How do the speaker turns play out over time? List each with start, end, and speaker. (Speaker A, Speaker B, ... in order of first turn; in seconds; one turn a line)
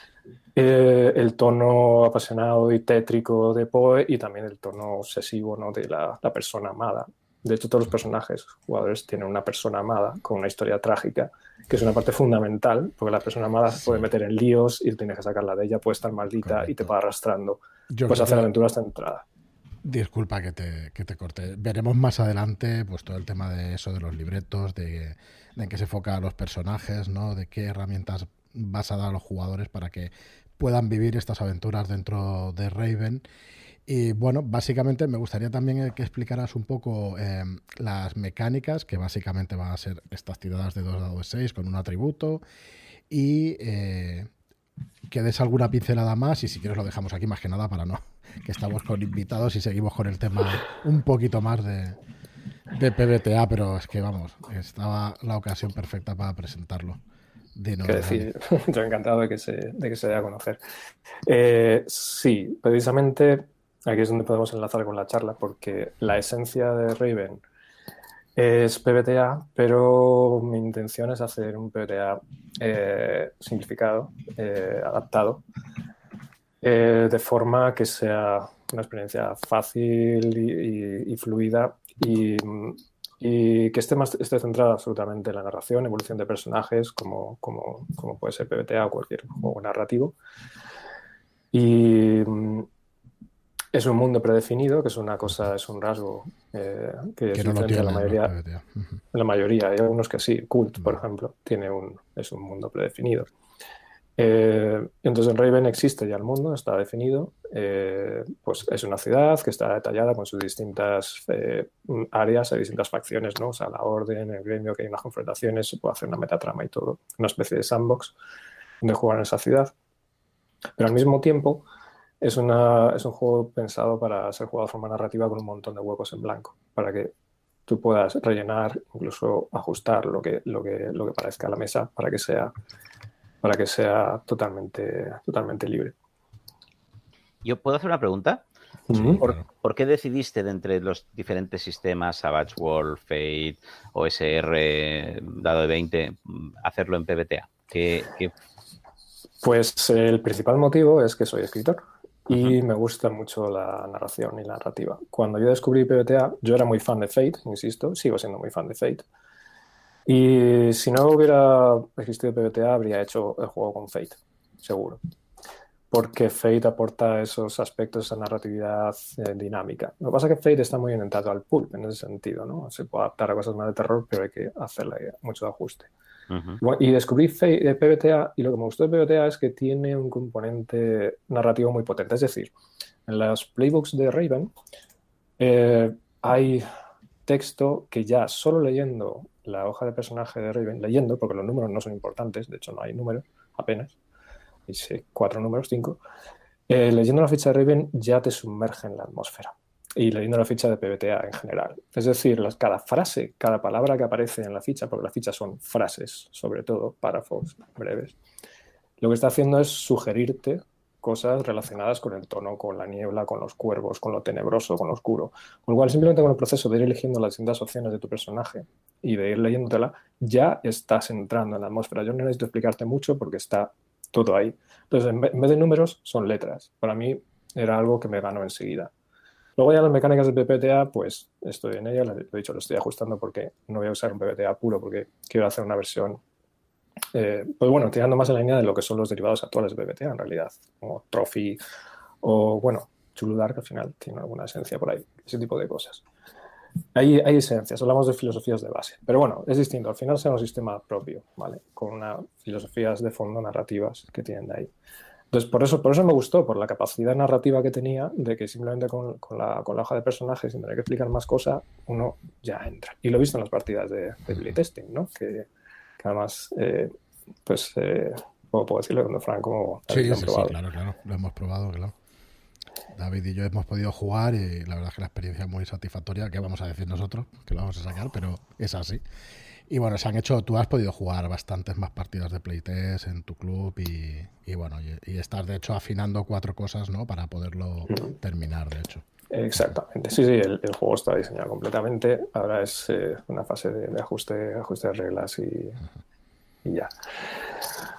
Speaker A: 0.6-19.2
Speaker B: 13.7-14.1
Speaker B: 16.4-16.9
Speaker B: 17.9-18.5
Speaker B: 19.8-33.2
Speaker B: 33.9-42.4
Speaker B: 43.1-44.3
Speaker B: 45.1-52.0
Speaker B: 52.7-57.0
Speaker B: 57.5-58.3
Speaker A: 57.8-60.6
Speaker A: 61.3-67.4
Speaker A: 68.3-75.4
Speaker A: 76.6-90.1
Speaker A: 91.5-92.7
Speaker A: 93.7-98.3
Speaker B: 97.3-99.0
Speaker A: 99.1-103.3
Speaker A: 104.2-118.1
Speaker A: 118.8-119.7
Speaker A: 120.8-121.6
Speaker A: 122.2-127.1
Speaker A: 127.7-132.5
Speaker A: 133.4-135.9
Speaker C: 137.4-138.4
Speaker A: 138.9-139.2
Speaker B: 138.9-139.4
Speaker C: 139.2-148.3
Speaker A: 149.4-159.0
Speaker A: 160.1-165.0
Speaker A: 165.9-175.9
Speaker C: 176.3-176.6
Speaker A: 176.6-182.5
Speaker A: 183.1-184.5
Speaker A: 185.4-186.7
Speaker A: 187.3-193.9
Speaker A: 194.7-196.0
Speaker A: 196.7-208.2
Speaker A: 209.0-228.9
Speaker A: 229.6-236.2
Speaker A: 237.1-241.6
Speaker A: 242.2-246.0
Speaker A: 246.9-254.7
Speaker A: 255.3-265.4
Speaker A: 266.0-266.9
Speaker A: 267.4-270.5
Speaker B: 269.9-271.9
Speaker B: 272.9-279.0
Speaker B: 279.7-289.0
Speaker A: 289.3-295.8
Speaker A: 296.6-296.9